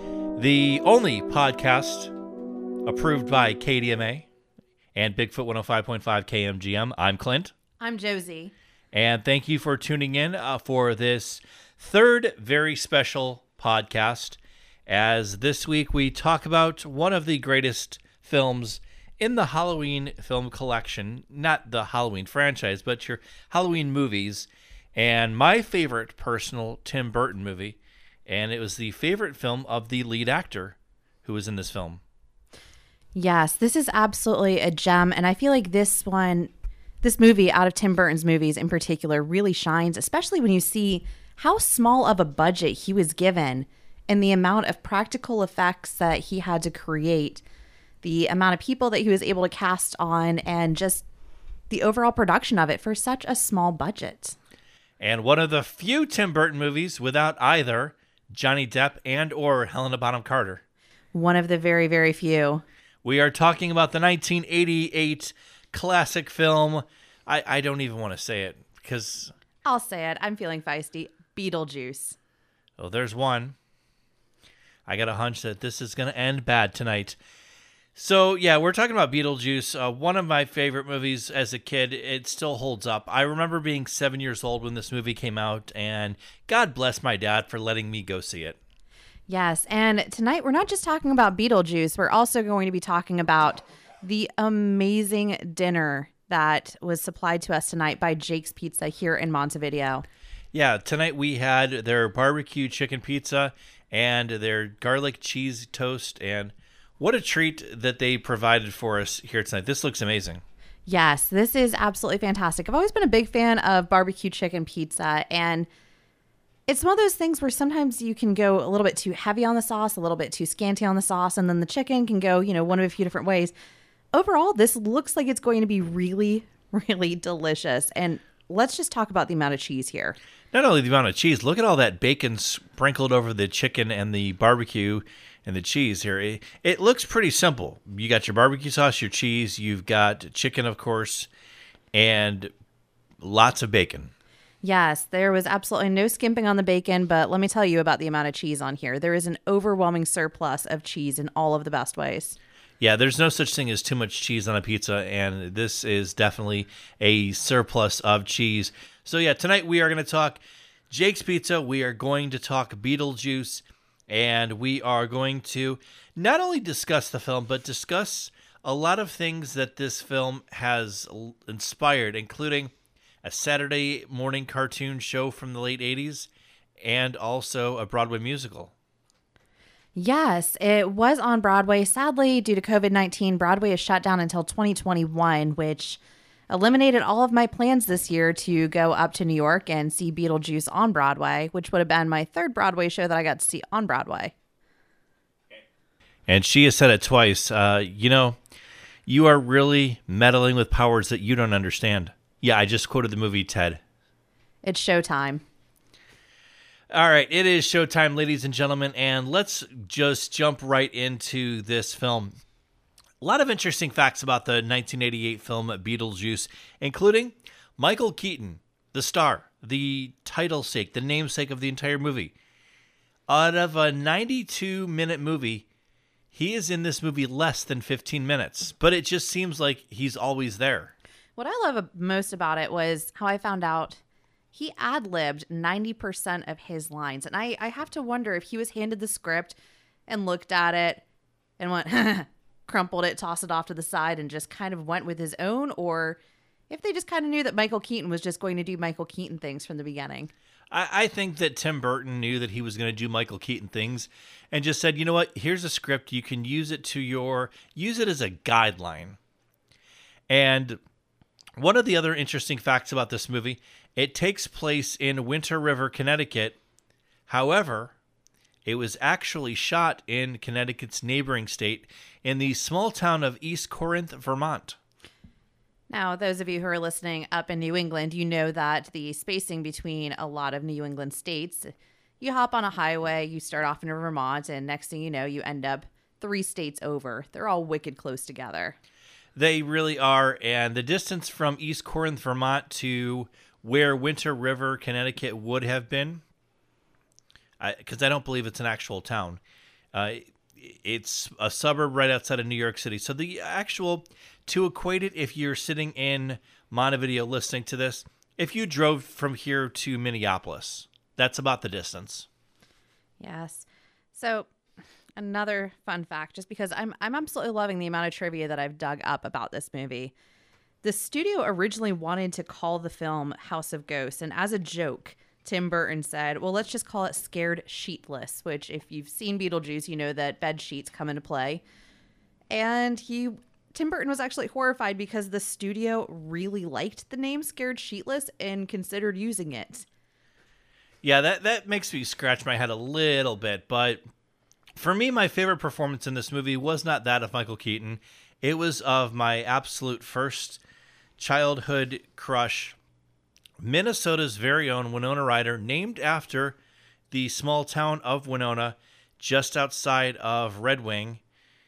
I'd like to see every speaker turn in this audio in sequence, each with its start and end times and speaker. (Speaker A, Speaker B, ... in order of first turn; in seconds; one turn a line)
Speaker A: 0.3-2.1
Speaker A: 2.8-4.2
Speaker A: 4.9-7.5
Speaker B: 7.8-8.5
Speaker A: 8.9-32.0
Speaker B: 33.1-36.5
Speaker B: 37.0-47.4
Speaker B: 48.0-51.0
Speaker B: 51.7-54.4
Speaker A: 55.0-60.6
Speaker B: 61.1-62.6
Speaker A: 63.0-69.3
Speaker B: 69.6-72.2
Speaker A: 72.8-73.5
Speaker A: 74.9-77.2
Speaker A: 77.9-88.6
Speaker B: 89.3-100.0
Speaker A: 100.5-110.4
Speaker B: 110.8-115.7
Speaker B: 116.7-123.5
Speaker B: 124.1-130.2
Speaker A: 130.5-141.3
Speaker A: 141.9-142.5
Speaker A: 143.2-144.1
Speaker B: 144.6-152.3
Speaker A: 152.8-160.4
Speaker A: 160.9-172.7
Speaker A: 173.2-176.3
Speaker A: 176.8-178.7
Speaker B: 179.9-194.3
Speaker A: 196.3-198.4
Speaker A: 199.1-203.8
Speaker B: 204.6-205.4
Speaker A: 206.9-212.3
Speaker A: 213.2-222.3
Speaker A: 223.3-225.6
Speaker A: 226.3-230.9
Speaker B: 231.4-234.0
Speaker B: 234.5-239.6
Speaker B: 240.1-241.0
Speaker B: 241.6-246.2
Speaker B: 246.7-250.3
Speaker A: 250.7-259.2
Speaker A: 260.3-260.8
Speaker A: 261.6-266.6
Speaker A: 267.3-267.9
Speaker A: 268.6-274.8
Speaker B: 275.9-288.8
Speaker A: 289.4-296.2
Speaker A: 297.6-299.4
Speaker A: 299.9-312.2
Speaker B: 313.2-314.5
Speaker B: 315.2-320.1
Speaker B: 320.8-331.6
Speaker B: 332.5-339.9
Speaker A: 341.0-344.0
Speaker A: 344.8-350.6
Speaker A: 351.2-352.8
Speaker A: 353.6-356.6
Speaker A: 357.1-361.2